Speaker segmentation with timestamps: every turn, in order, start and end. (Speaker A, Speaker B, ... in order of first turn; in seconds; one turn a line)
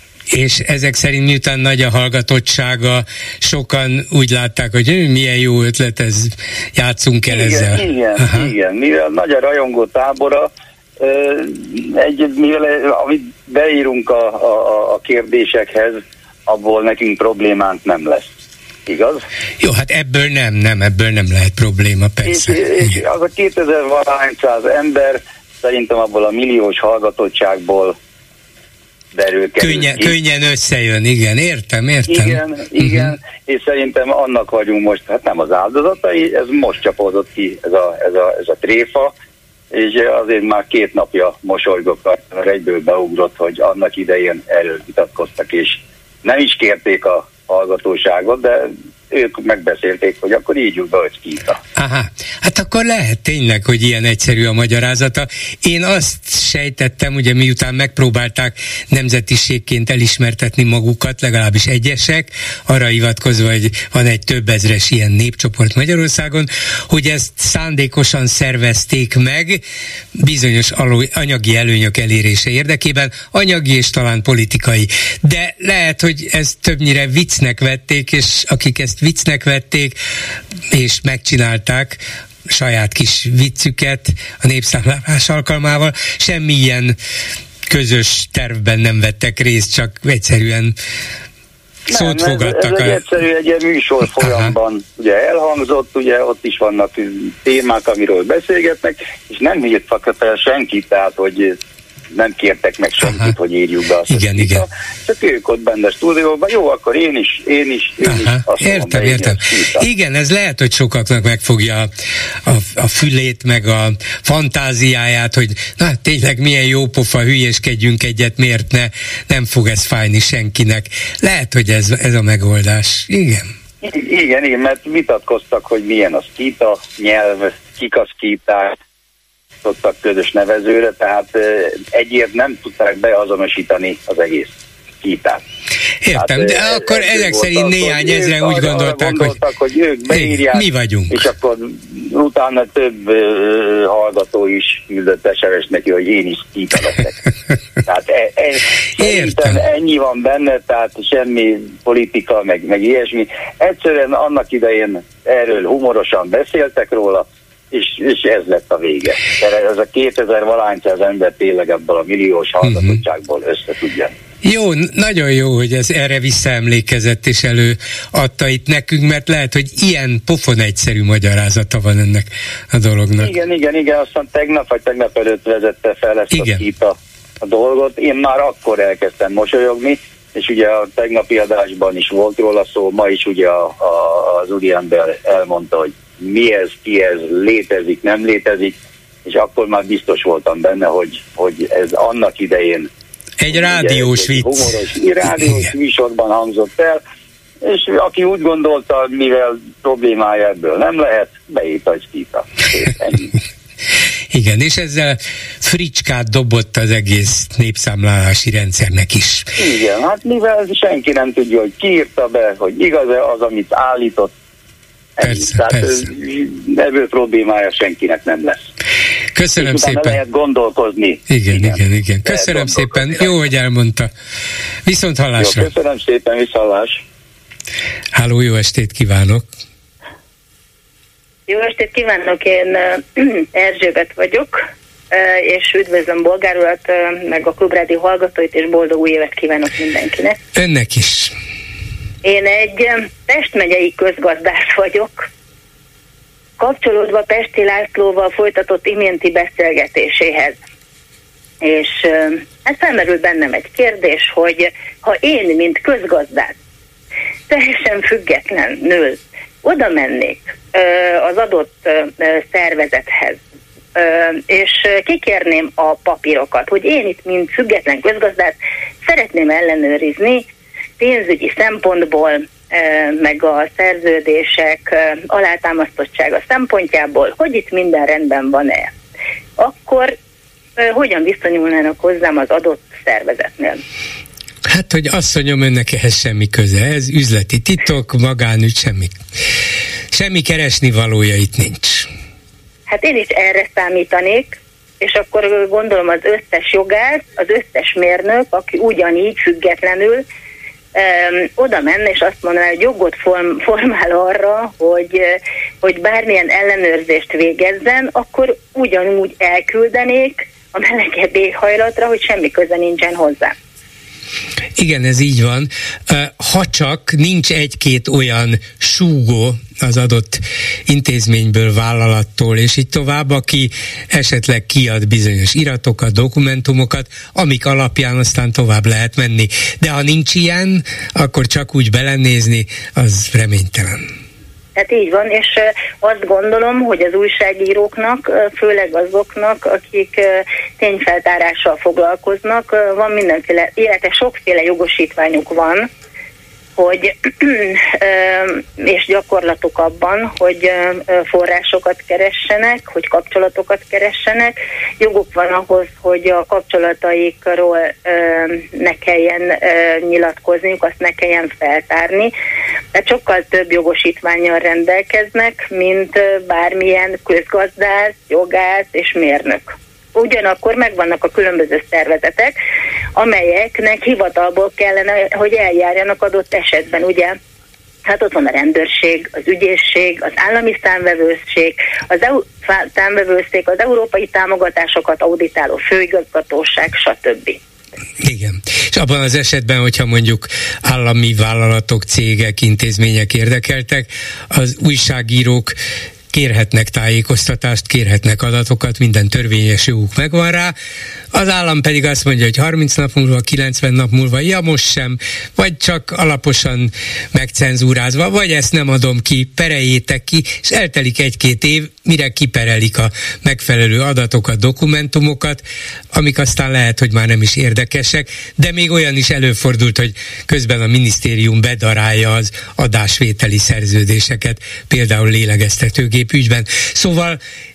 Speaker A: 0.3-8.5
Speaker B: 7.3-18.3
Speaker B: 18.9-19.2
Speaker A: 19.6-23.0
Speaker B: 22.2-27.9
Speaker B: 29.1-30.1
Speaker A: 29.6-33.1
Speaker B: 32.1-39.1
Speaker B: 39.7-51.6
Speaker A: 51.8-69.6
Speaker A: 70.2-80.0
Speaker A: 80.7-87.0
Speaker A: 87.7-90.8
Speaker B: 91.9-101.6
Speaker A: 91.9-93.0
Speaker A: 94.2-94.5
Speaker B: 102.1-109.9
Speaker A: 103.0-103.3
Speaker A: 104.1-104.7
Speaker A: 108.0-111.9
Speaker A: 112.4-123.5
Speaker B: 123.8-128.8
Speaker B: 129.6-135.4
Speaker A: 136.0-139.4
Speaker B: 136.1-147.2
Speaker A: 140.1-141.2
Speaker B: 147.9-164.1
Speaker A: 149.0-149.6
Speaker A: 162.6-163.0
Speaker A: 164.4-173.3
Speaker B: 173.2-192.9
Speaker A: 176.3-176.6
Speaker A: 193.4-194.8
Speaker B: 193.5-197.0
Speaker A: 195.3-195.7
Speaker B: 197.6-203.3
Speaker A: 204.3-209.5
Speaker B: 209.6-214.3
Speaker B: 215.2-218.6
Speaker A: 215.2-216.1
Speaker A: 219.3-220.2
Speaker B: 219.6-223.4
Speaker A: 221.3-224.1
Speaker A: 224.8-225.7
Speaker B: 225.4-227.0
Speaker A: 228.1-229.4
Speaker C: 231.5-240.4
Speaker A: 240.5-241.3
Speaker C: 242.2-245.3
Speaker C: 246.6-250.5
Speaker C: 251.6-256.5
Speaker C: 257.5-263.4
Speaker C: 263.9-270.5
Speaker C: 271.0-278.9
Speaker C: 279.6-280.1
Speaker C: 280.8-283.8
Speaker A: 284.6-289.2
Speaker A: 290.1-292.1
Speaker C: 292.9-300.2
Speaker C: 300.9-313.5
Speaker A: 314.8-334.0
Speaker C: 334.8-345.9
Speaker C: 346.8-362.3
Speaker C: 362.9-372.6
Speaker C: 373.1-377.4
Speaker C: 378.0-387.6
Speaker A: 388.2-395.8
Speaker A: 396.3-400.7
Speaker A: 401.3-427.4